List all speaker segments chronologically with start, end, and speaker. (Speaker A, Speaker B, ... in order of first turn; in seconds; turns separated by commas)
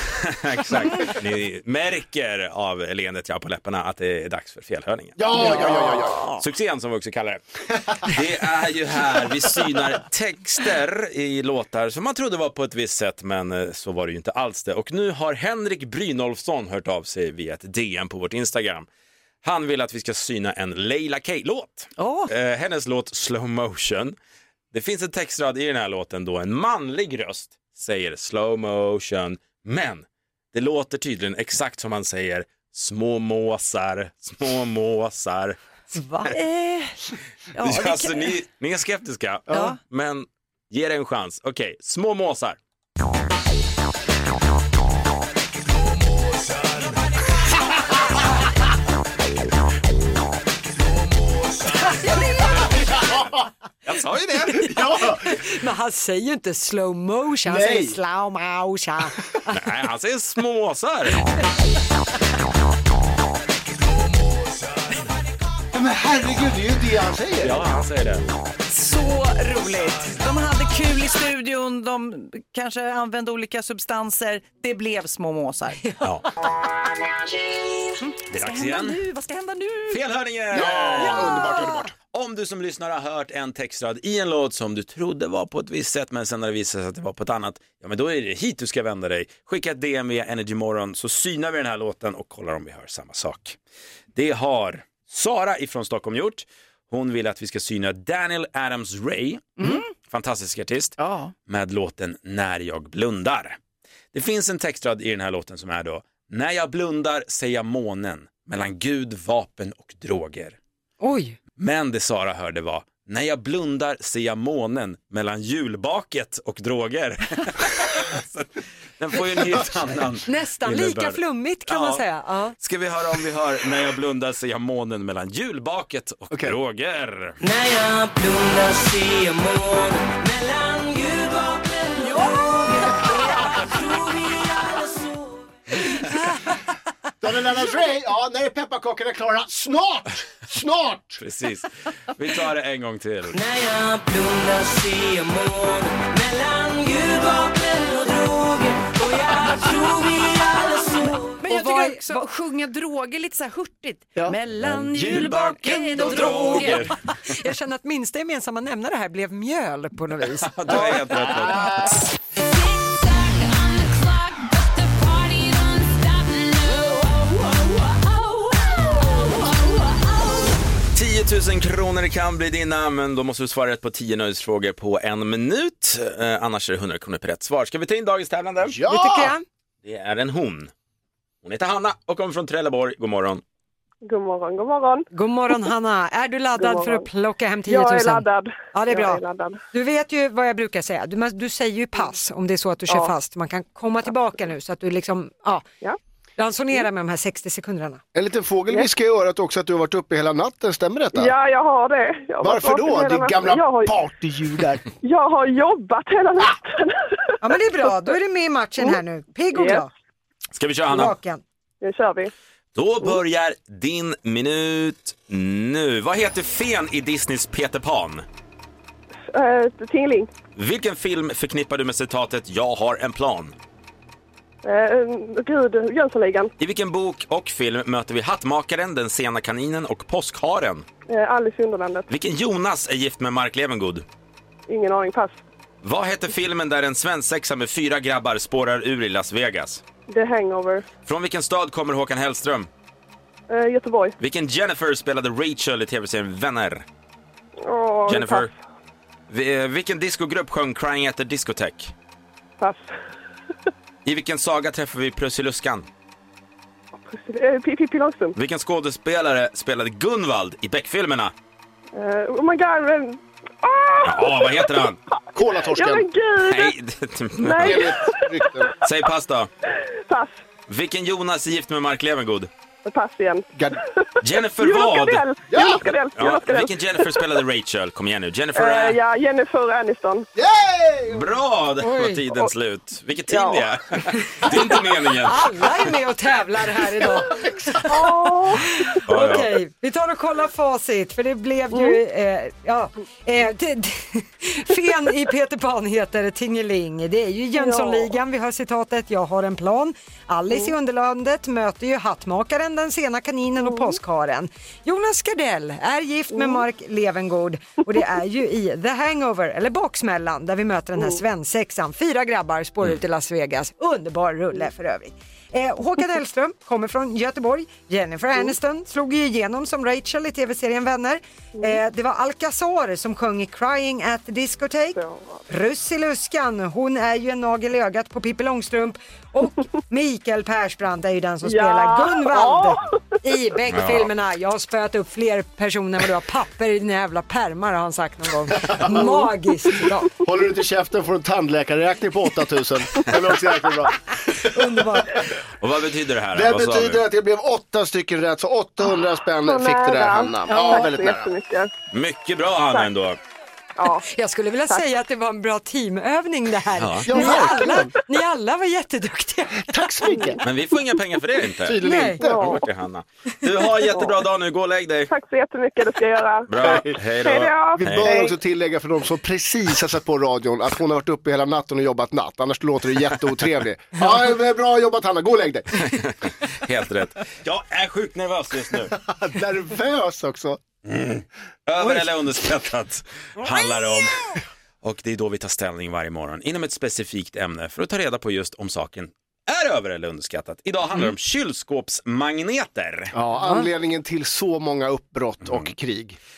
Speaker A: 0.2-5.2, Speaker B: 5.2-6.3, Speaker C: 5.3-6.4, Speaker D: 5.3-5.8, Speaker A: 6.3-18.9, Speaker A: 19.4-24.2, Speaker C: 22.0-22.3, Speaker A: 24.7-35.6, Speaker D: 35.9-36.2, Speaker C: 36.3-38.4, Speaker A: 37.6-42.6, Speaker C: 39.5-39.8, Speaker D: 51.7-52.5, Speaker A: 53.9-54.8, Speaker B: 54.6-55.3, Speaker D: 55.0-59.5, Speaker B: 57.5-58.0, Speaker A: 59.5-61.3, Speaker B: 65.7-67.6, Speaker A: 67.4-68.2, Speaker C: 68.7-76.0, Speaker C: 78.0-80.0, Speaker A: 78.3-79.0, Speaker A: 79.9-81.4, Speaker B: 80.5-81.9, Speaker A: 82.1-93.6, Speaker A: 94.2-103.6, Speaker C: 99.6-99.9, Speaker C: 101.0-101.3, Speaker A: 104.1-110.6, Speaker D: 111.0-111.4, Speaker A: 111.6-122.0, Speaker D: 120.3-122.5, Speaker A: 122.6-127.4, Speaker B: 126.3-126.6, Speaker E: 127.4-135.5, Speaker D: 132.2-132.6, Speaker B: 137.2-141.2, Speaker A: 141.2-143.4, Speaker E: 143.3-151.4, Speaker C: 151.4-157.0, Speaker D: 151.5-152.3, Speaker A: 154.6-156.9, Speaker D: 155.6-160.9, Speaker E: 156.3-156.7, Speaker A: 160.5-161.8, Speaker B: 161.2-161.9, Speaker E: 162.4-170.4, Speaker A: 170.9-178.8, Speaker B: 178.6-179.3, Speaker D: 178.9-179.4, Speaker A: 179.8-180.7, Speaker A: 181.4-183.4, Speaker F: 184.1-185.7, Speaker D: 185.1-189.2, Speaker F: 186.6-187.1, Speaker F: 187.7-189.6, Speaker D: 189.7-195.7, Speaker F: 192.9-193.1, Speaker D: 196.4-198.0, Speaker B: 198.2-201.3, Speaker F: 201.1-204.0, Speaker B: 202.4-204.8, Speaker F: 205.0-208.2, Speaker D: 207.4-209.9, Speaker F: 209.5-209.9, Speaker A: 210.5-211.2, Speaker D: 210.9-211.4, Speaker F: 211.8-212.3, Speaker A: 212.8-218.2, Speaker F: 219.3-220.3, Speaker A: 220.6-223.5, Speaker F: 224.6-226.5, Speaker A: 226.6-230.8, Speaker F: 231.1-232.1, Speaker A: 232.1-234.1, Speaker F: 234.7-235.4, Speaker A: 235.8-239.8, Speaker F: 240.1-240.8, Speaker A: 241.0-242.7, Speaker F: 243.5-244.2, Speaker A: 244.2-246.8, Speaker F: 247.6-248.5, Speaker A: 248.1-248.5, Speaker A: 249.3-251.9, Speaker F: 252.6-252.9, Speaker A: 254.1-255.9, Speaker F: 257.1-258.4, Speaker A: 258.4-261.3, Speaker F: 261.9-266.7, Speaker A: 264.1-265.0, Speaker B: 265.4-266.1, Speaker A: 266.5-267.9, Speaker F: 267.4-268.4, Speaker B: 267.6-268.7, Speaker A: 268.8-269.5, Speaker F: 270.1-270.3, Speaker A: 270.7-272.5, Speaker F: 272.9-273.5, Speaker A: 274.2-275.2, Speaker F: 274.6-277.4, Speaker B: 275.5-275.9, Speaker A: 276.2-279.0, Speaker F: 278.6-280.3, Speaker B: 280.4-281.3, Speaker A: 281.1-285.6, Speaker D: 281.8-282.2, Speaker F: 283.3-283.7, Speaker F: 284.5-284.9, Speaker D: 285.2-325.0, Speaker F: 287.9-289.4, Speaker A: 289.1-289.5, Speaker F: 291.7-292.0, Speaker F: 297.6-298.2, Speaker F: 300.5-300.7, Speaker F: 303.6-304.0, Speaker F: 306.3-306.7, Speaker F: 311.0-311.2, Speaker F: 324.9-325.4, Speaker D: 325.5-340.1, Speaker F: 331.4-333.2, Speaker A: 333.7-334.1, Speaker B: 338.6-339.1, Speaker F: 338.9-339.7, Speaker B: 340.2-344.0, Speaker D: 344.5-345.2, Speaker A: 345.6-347.0, Speaker B: 346.3-351.3, Speaker F: 349.5-351.7, Speaker A: 351.9-353.2, Speaker F: 353.8-354.1, Speaker D: 354.1-359.7, Speaker A: 356.8-357.2, Speaker B: 357.1-357.9, Speaker B: 359.6-360.4, Speaker F: 360.1-360.4, Speaker A: 360.4-365.1, Speaker B: 361.6-362.6, Speaker D: 361.8-362.3, Speaker F: 362.2-362.6, Speaker F: 363.9-364.2, Speaker F: 365.1-368.4, Speaker A: 366.5-368.1, Speaker B: 366.6-367.0, Speaker B: 367.8-375.9, Speaker A: 375.8-379.0, Speaker B: 379.0-380.6, Speaker A: 380.9-384.1, Speaker B: 381.8-382.1, Speaker A: 384.8-393.1, Speaker B: 393.1-396.2, Speaker A: 395.5-395.7